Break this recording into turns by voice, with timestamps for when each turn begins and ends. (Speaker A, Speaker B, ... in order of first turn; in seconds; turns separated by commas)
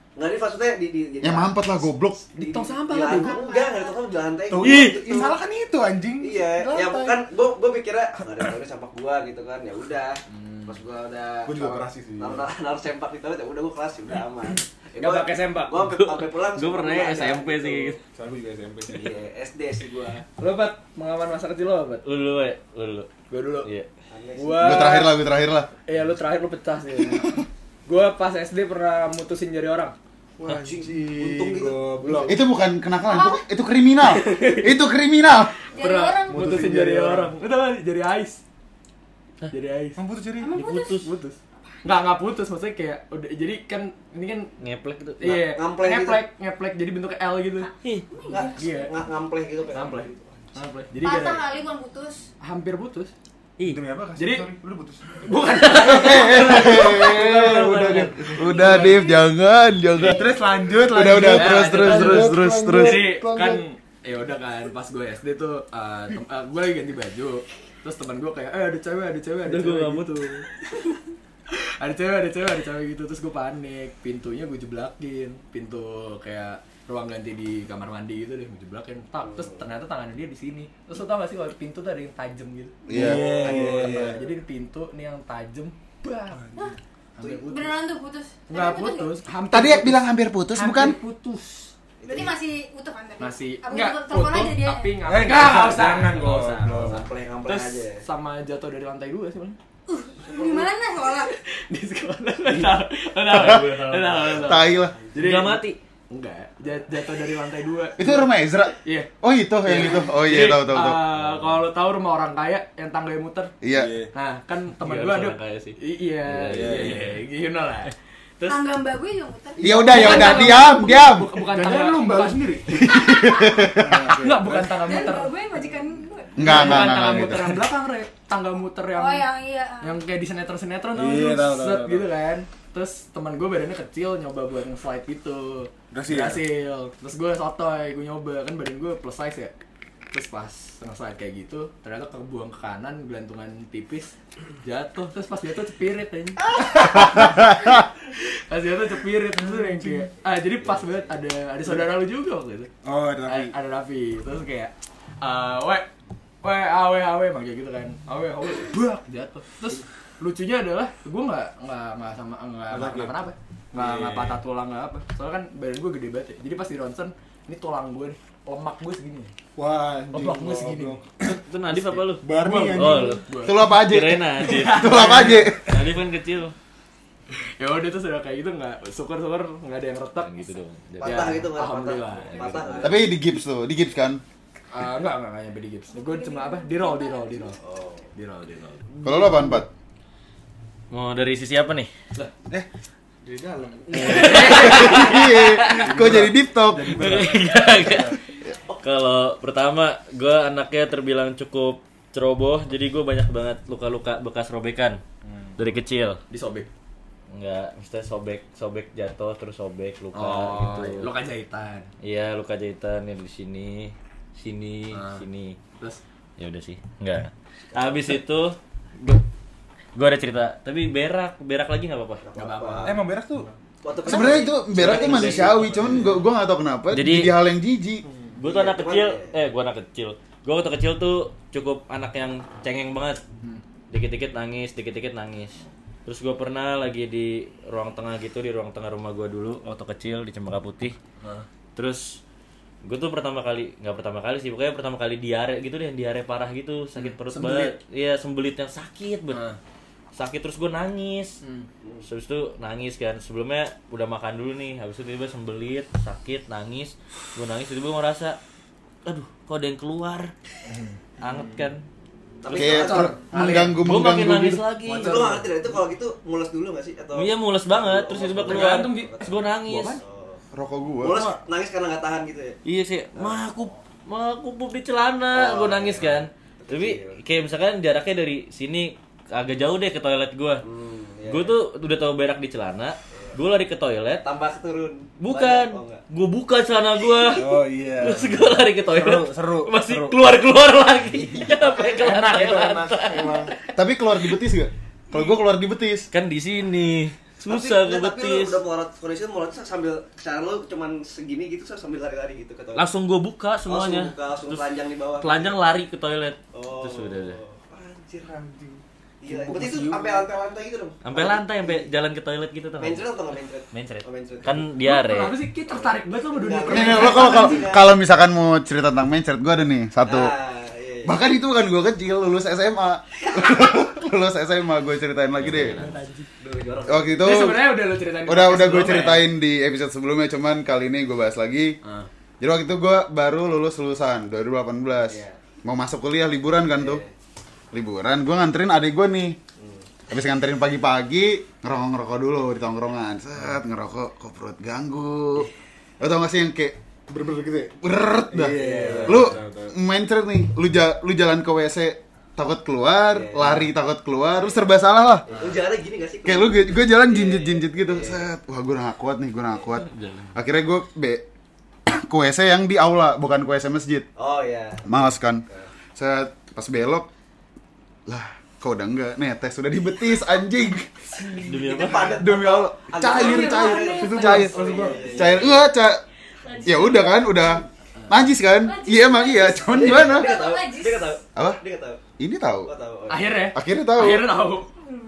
Speaker A: 0.2-5.4, Speaker B: 1.2-2.2, Speaker C: 2.3-3.4, Speaker D: 3.0-4.0, Speaker E: 4.5-7.2, Speaker F: 4.6-5.0, Speaker A: 6.2-18.0, Speaker E: 11.5-12.5, Speaker C: 15.0-15.8, Speaker F: 15.8-18.0, Speaker E: 18.1-19.2, Speaker A: 18.9-20.3, Speaker C: 20.4-22.1, Speaker F: 22.1-23.1, Speaker C: 23.3-23.7, Speaker A: 24.1-25.0, Speaker C: 24.4-25.1, Speaker B: 24.6-25.7, Speaker C: 25.9-30.0, Speaker E: 30.4-32.5, Speaker A: 30.5-32.1, Speaker C: 32.0-32.4, Speaker B: 32.3-35.5, Speaker D: 33.1-33.4, Speaker C: 34.0-34.7, Speaker D: 35.7-36.5, Speaker C: 35.7-38.4, Speaker E: 36.2-37.3, Speaker C: 39.5-40.0, Speaker E: 40.0-40.6, Speaker D: 40.4-41.1, Speaker F: 40.5-41.1, Speaker C: 41.1-44.5, Speaker F: 44.6-45.2, Speaker C: 45.2-47.7, Speaker A: 45.2-46.2, Speaker D: 48.1-48.6, Speaker A: 48.3-50.5, Speaker C: 48.6-48.9, Speaker C: 49.7-51.5, Speaker D: 51.0-52.3, Speaker C: 52.4-53.1, Speaker E: 53.6-55.3, Speaker C: 54.2-54.5, Speaker F: 55.3-58.5, Speaker C: 55.3-56.5, Speaker B: 55.7-63.1, Speaker D: 58.4-59.2, Speaker C: 58.5-59.0, Speaker E: 60.0-63.7, Speaker C: 61.3-70.5, Speaker F: 69.5-70.3, Speaker C: 71.5-86.4, Speaker A: 79.2-79.6, Speaker B: 82.9-83.4, Speaker E: 82.9-84.3, Speaker E: 86.3-86.8, Speaker C: 87.2-87.7, Speaker A: 87.2-87.8, Speaker D: 87.5-89.2, Speaker C: 88.5-91.7, Speaker B: 89.5-91.0, Speaker A: 92.0-92.5, Speaker D: 92.1-95.4, Speaker C: 93.2-99.6, Speaker E: 95.0-97.1, Speaker A: 96.7-98.0, Speaker D: 99.9-101.3, Speaker C: 101.5-109.1, Speaker B: 103.3-103.7, Speaker F: 103.3-104.2, Speaker B: 104.4-105.0, Speaker F: 105.2-105.8, Speaker B: 108.0-111.0, Speaker C: 109.6-113.5, Speaker B: 113.6-113.9, Speaker E: 113.7-114.1, Speaker C: 114.1-117.9, Speaker F: 114.8-115.8, Speaker E: 116.2-117.2, Speaker F: 116.5-117.1, Speaker D: 118.4-120.4, Speaker B: 119.6-121.4, Speaker C: 119.7-122.6, Speaker E: 119.7-122.8, Speaker B: 122.7-124.2, Speaker E: 123.6-124.8, Speaker C: 124.1-125.4, Speaker D: 124.8-127.0, Speaker B: 126.4-127.6, Speaker C: 126.4-139.5, Speaker D: 128.9-130.0, Speaker E: 130.9-132.1, Speaker E: 135.9-136.5, Speaker C: 140.1-147.6, Speaker C: 148.5-152.7, Speaker A: 150.6-151.2, Speaker E: 152.8-153.6, Speaker C: 153.3-155.9, Speaker C: 156.4-169.3, Speaker E: 162.7-164.4, Speaker E: 169.6-171.4, Speaker C: 170.1-171.0, Speaker F: 171.5-176.6, Speaker C: 171.7-173.8, Speaker E: 172.2-173.2, Speaker B: 173.4-175.8, Speaker C: 174.4-175.7, Speaker C: 177.3-180.3, Speaker F: 180.2-181.4, Speaker A: 181.0-183.1, Speaker C: 181.0-183.0, Speaker B: 182.8-184.2, Speaker C: 184.7-187.6, Speaker D: 185.9-187.6, Speaker A: 187.6-188.1, Speaker C: 188.2-188.9, Speaker B: 189.0-189.7, Speaker F: 190.9-191.9, Speaker E: 193.2-195.0, Speaker F: 193.9-195.9, Speaker C: 193.9-194.9, Speaker B: 194.4-197.0, Speaker E: 195.7-198.2, Speaker F: 196.9-198.2, Speaker F: 198.8-205.0, Speaker E: 205.2-205.6, Speaker F: 205.6-206.2, Speaker C: 206.3-206.7, Speaker F: 207.3-211.1, Speaker C: 210.1-211.9, Speaker F: 212.0-215.6, Speaker C: 214.9-215.2, Speaker F: 216.4-219.2, Speaker F: 219.9-222.2, Speaker A: 222.2-223.0, Speaker C: 222.3-223.0, Speaker E: 222.8-223.5, Speaker A: 223.8-225.7, Speaker B: 224.1-228.1, Speaker F: 224.1-226.1, Speaker F: 226.9-227.3, Speaker F: 228.4-233.2, Speaker A: 228.4-229.3, Speaker F: 233.9-241.0, Speaker F: 241.8-242.2, Speaker F: 242.8-249.4, Speaker C: 247.2-247.8, Speaker C: 249.3-249.6, Speaker F: 250.2-251.4, Speaker C: 251.4-251.7, Speaker F: 252.0-258.4, Speaker F: 259.1-260.3, Speaker F: 261.2-261.9, Speaker E: 261.2-261.6, Speaker A: 262.4-263.2, Speaker B: 262.5-264.6, Speaker C: 262.6-263.8, Speaker F: 263.5-265.3, Speaker C: 264.9-265.4, Speaker A: 265.0-270.4, Speaker F: 267.1-270.0, Speaker C: 268.4-269.1, Speaker C: 269.7-270.0, Speaker B: 270.5-271.2, Speaker A: 271.0-272.6, Speaker F: 272.6-280.6, Speaker A: 275.3-277.2, Speaker A: 280.6-281.6, Speaker F: 281.3-284.3, Speaker A: 283.1-283.4, Speaker A: 284.2-286.0, Speaker F: 285.2-293.5, Speaker E: 287.4-290.3, Speaker A: 291.2-292.3, Speaker E: 292.0-293.6, Speaker B: 293.8-296.1, Speaker F: 296.1-298.6, Speaker A: 297.5-302.9, Speaker F: 302.8-304.7, Speaker A: 303.7-305.6, Speaker F: 305.2-307.4, Speaker A: 306.5-311.9, Speaker C: 309.3-310.2, Speaker F: 311.0-315.4, Speaker A: 312.8-314.7, Speaker C: 314.8-317.6, Speaker A: 315.7-317.9, Speaker B: 316.7-320.3, Speaker A: 320.0-321.2, Speaker B: 321.0-325.8, Speaker A: 323.3-323.7, Speaker F: 325.4-325.9, Speaker C: 325.7-326.3, Speaker A: 326.4-327.3, Speaker B: 326.9-331.8, Speaker C: 327.2-329.3, Speaker B: 332.4-337.0, Speaker A: 335.0-335.4, Speaker A: 336.7-337.1, Speaker B: 337.7-339.4, Speaker A: 339.6-339.9, Speaker B: 340.1-345.5, Speaker B: 346.0-346.8, Speaker E: 347.1-349.8, Speaker B: 347.8-355.3, Speaker C: 348.6-349.3, Speaker A: 348.6-349.4, Speaker A: 353.1-353.6, Speaker A: 355.3-358.3, Speaker B: 356.2-361.2, Speaker F: 360.0-360.3, Speaker B: 361.9-364.1, Speaker A: 364.2-365.7, Speaker B: 364.9-365.4, Speaker B: 366.0-367.1, Speaker B: 368.1-371.3, Speaker F: 371.4-372.2, Speaker A: 371.4-375.7, Speaker B: 372.0-376.0, Speaker D: 373.2-373.9, Speaker E: 374.0-375.4, Speaker B: 376.6-380.4, Speaker D: 378.7-381.1, Speaker A: 379.7-382.0, Speaker B: 381.4-381.6, Speaker B: 382.2-382.7, Speaker A: 382.6-383.5, Speaker C: 383.1-384.7, Speaker B: 383.5-384.3